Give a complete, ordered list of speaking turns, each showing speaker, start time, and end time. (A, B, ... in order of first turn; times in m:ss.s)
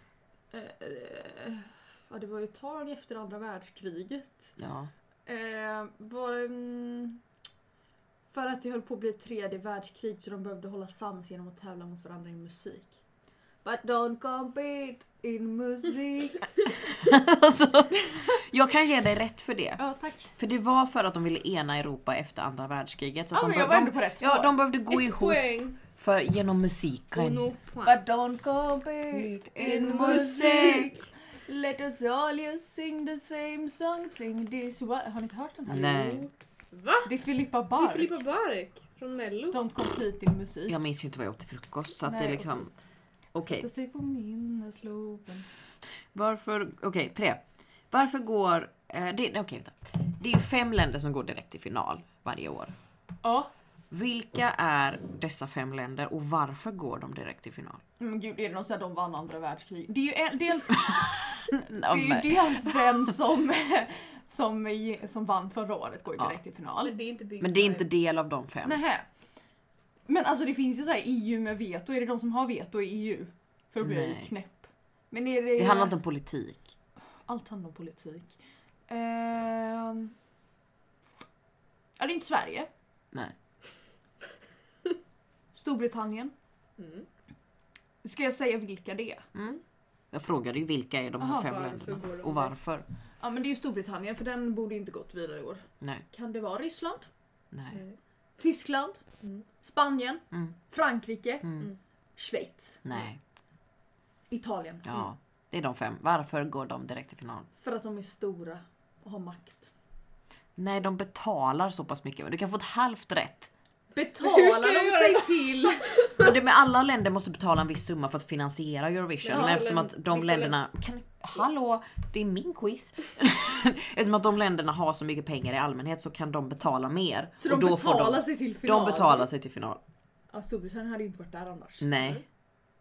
0:00.5-0:04.5 A
0:04.6-0:04.9 B
0:05.3-0:07.2 A
0:08.3-0:13.0 A
0:13.6-0:16.4 A
0:16.8-0:19.8 B
0:19.8-0:20.3 A
0:20.4-0:27.5 B
0:23.3-0:24.6 A
0:24.9-0:25.8 C
0:27.1-0:28.1 C
0:27.8-0:36.3 A
0:29.1-0:30.9 B
0:29.9-0:30.9 C
0:35.7-0:36.3 B
0:36.7-0:37.1 C
0:37.0-0:38.2 A
0:37.8-0:39.6 C
0:39.5-0:40.8 A
0:40.7-0:42.7 B
0:42.0-0:42.7 A
0:43.3-0:43.7 B
0:43.5-0:45.5 A
0:46.1-0:52.8 B
0:53.2-0:53.5 A
0:53.9-0:57.8 B
0:58.0-1:01.1 A
1:00.9-1:03.1 B
1:01.8-1:07.0 A
1:06.8-1:07.9 C
1:07.4-1:08.8 B
1:08.6-1:09.1 A
1:10.1-1:16.0 A
1:13.8-1:14.3 B
1:15.6-1:16.7 B
1:17.2-1:18.4 A
1:18.9-1:20.1 A
1:22.0-1:22.7 A
1:25.5-1:26.3 A
1:26.8-1:27.1 C
1:28.0-1:29.3 A
1:29.4-1:29.6 B
1:30.1-1:32.8 B
1:31.2-1:32.5 C
1:33.2-1:37.1 A
1:37.5-1:37.8 B
1:38.4-1:39.0 A
1:39.6-1:41.5 A
1:41.4-1:41.7 B
1:42.2-1:43.1 A
1:42.8-1:43.2 B
1:44.3-1:45.1 A
1:44.9-1:47.5 B
1:47.6-1:49.7 A
1:50.6-1:53.5 B
1:53.9-1:55.9 A
1:54.2-1:56.3 C
1:56.2-2:09.8 B
1:59.2-2:00.6 C
1:59.3-1:59.7 A
2:07.4-2:09.3 A
2:10.3-2:12.0 A
2:11.8-2:12.2 B